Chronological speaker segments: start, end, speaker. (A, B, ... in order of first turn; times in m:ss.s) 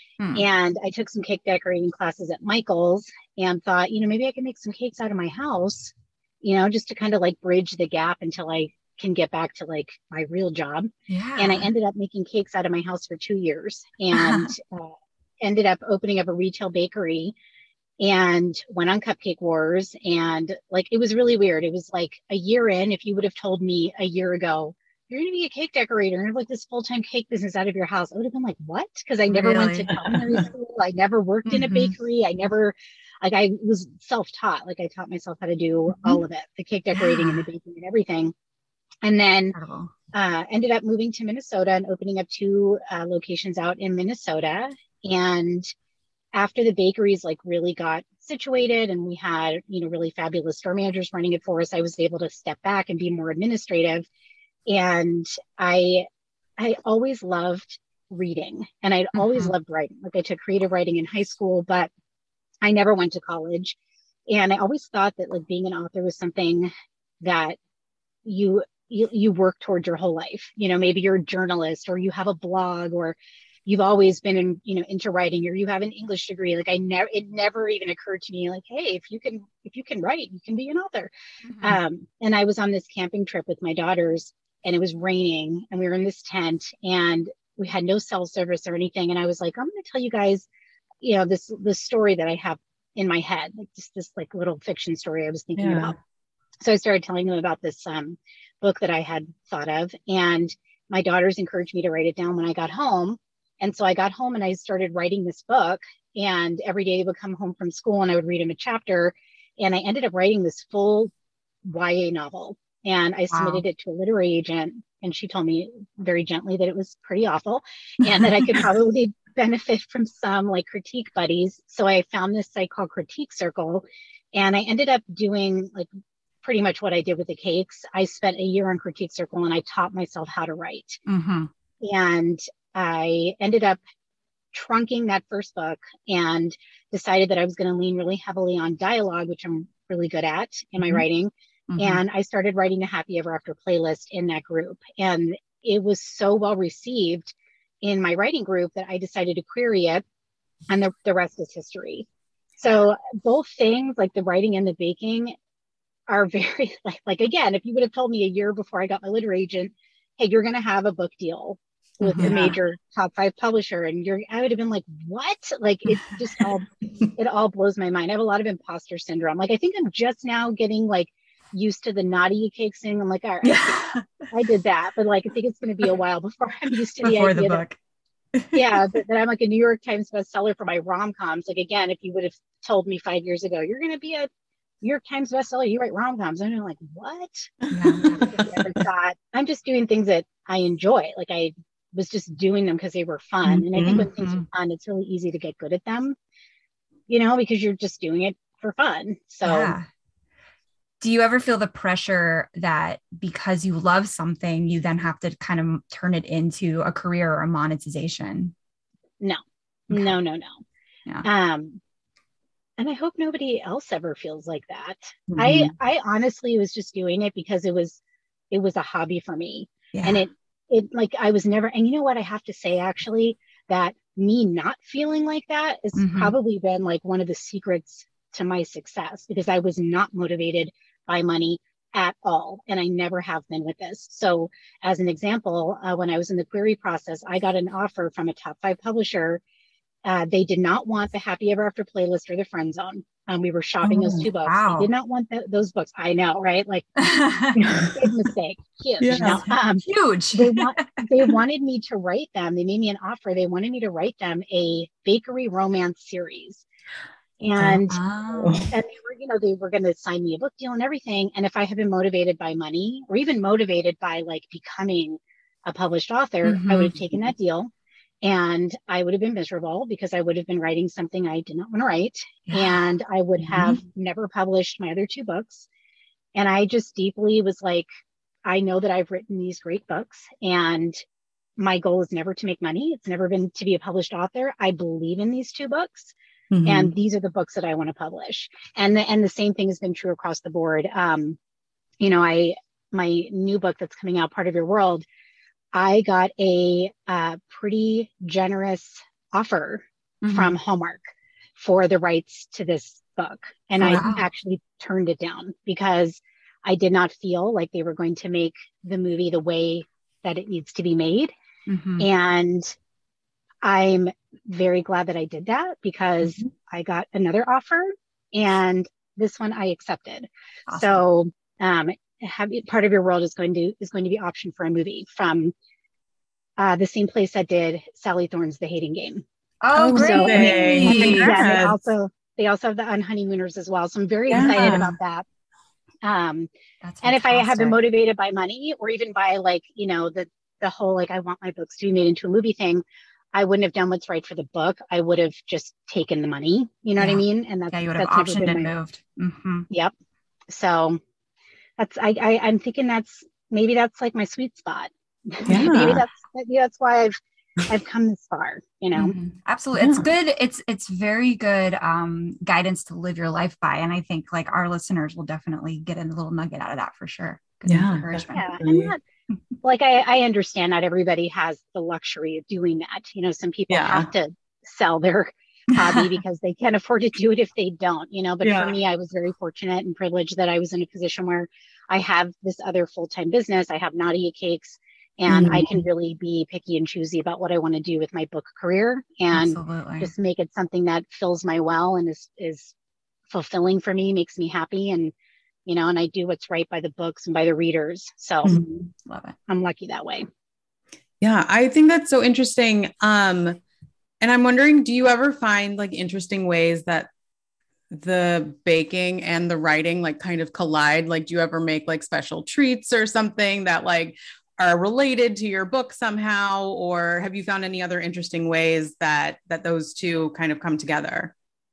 0:00.2-0:00.5 A
0:00.4-0:17.3 B
0:11.1-0:11.7 A
0:14.1-0:14.5 A
0:18.0-0:38.3 B
0:29.3-0:30.2 A
0:31.5-0:31.9 A
0:35.9-0:36.2 A
0:36.9-0:37.4 A
0:39.0-0:39.6 B
0:39.5-0:39.9 A
0:40.1-0:45.7 B
0:46.3-0:54.1 B
0:54.7-0:56.1 B
0:56.6-1:01.9 B
0:59.2-0:59.5 A
1:02.6-1:03.8 B
1:04.3-1:07.6 B
1:08.2-1:30.5 B
1:21.4-1:21.8 A
1:31.0-1:36.0 B
1:35.6-1:36.0 C
1:36.6-1:51.1 B
1:51.6-2:05.9 B
1:53.3-1:53.6 A
1:58.2-1:58.5 A
2:06.4-2:11.0 B
2:11.1-2:11.5 A
2:11.8-2:13.8 B
2:14.5-2:30.0 B
2:20.8-2:21.1 A
2:21.7-2:22.0 A
2:30.7-2:32.1 B
2:32.6-2:35.4 B
2:36.1-2:53.8 B
2:42.0-2:42.6 A
2:53.4-2:54.3 A
2:54.3-2:57.6 B
2:57.0-2:57.8 A
2:58.4-2:58.8 A
2:58.5-3:04.3 B
3:04.8-3:07.5 B
3:07.6-3:08.6 C
3:07.7-3:08.3 A
3:08.0-3:16.2 B
3:13.7-3:14.1 C
3:13.9-3:14.5 A
3:17.1-3:19.8 B
3:19.4-3:19.9 A
3:21.0-3:28.5 A
3:29.2-3:30.6 B
3:31.2-3:31.8 B
3:32.8-3:38.0 B
3:35.3-3:35.7 C
3:38.5-3:59.4 B
3:39.9-3:40.2 A
3:46.0-3:46.4 A
4:00.0-4:07.0 B
4:03.8-4:04.9 A
4:07.0-4:07.6 A
4:07.6-4:08.0 C
4:07.8-4:16.6 B
4:09.0-4:09.4 C
4:09.2-4:11.3 A
4:17.4-4:18.0 B
4:17.6-4:18.7 A
4:18.4-4:18.7 C
4:18.7-4:35.7 B
4:26.4-4:27.0 A
4:32.5-4:32.8 A
4:36.4-4:37.9 B
4:38.4-4:41.0 B
4:41.6-4:46.1 B
4:46.5-4:46.9 C
4:46.7-4:51.4 B
4:52.0-4:55.1 B
4:55.7-5:01.0 B
5:00.2-5:00.5 A
5:01.6-5:11.3 B
5:03.8-5:04.2 A
5:11.7-5:12.1 A
5:12.0-5:12.7 B
5:13.6-5:25.5 B
5:20.7-5:21.0 A
5:26.6-5:29.2 B
5:29.6-5:31.5 A
5:29.8-5:31.8 C
5:29.9-5:35.2 B
5:34.3-5:34.9 C
5:34.3-5:34.9 A
5:36.0-5:36.5 B
5:36.8-5:37.8 A
5:37.0-5:48.7 B
5:47.0-5:49.7 A
5:50.5-5:51.0 B
5:51.8-5:59.2 B
5:55.5-5:56.0 C
5:59.0-6:08.4 A
5:59.7-6:00.1 C
6:07.7-6:08.9 C
6:08.2-6:09.0 B
6:09.6-6:32.7 B
6:13.7-6:14.1 C
6:15.8-6:16.2 A
6:18.4-6:18.7 C
6:25.3-6:25.6 C
6:29.3-6:30.1 A
6:33.3-6:35.1 B
6:35.7-6:38.5 B
6:38.5-6:38.9 C
6:39.0-6:39.4 A
6:39.5-6:40.3 B
6:41.2-6:43.6 C
6:44.2-6:47.1 C
6:47.9-7:01.3 C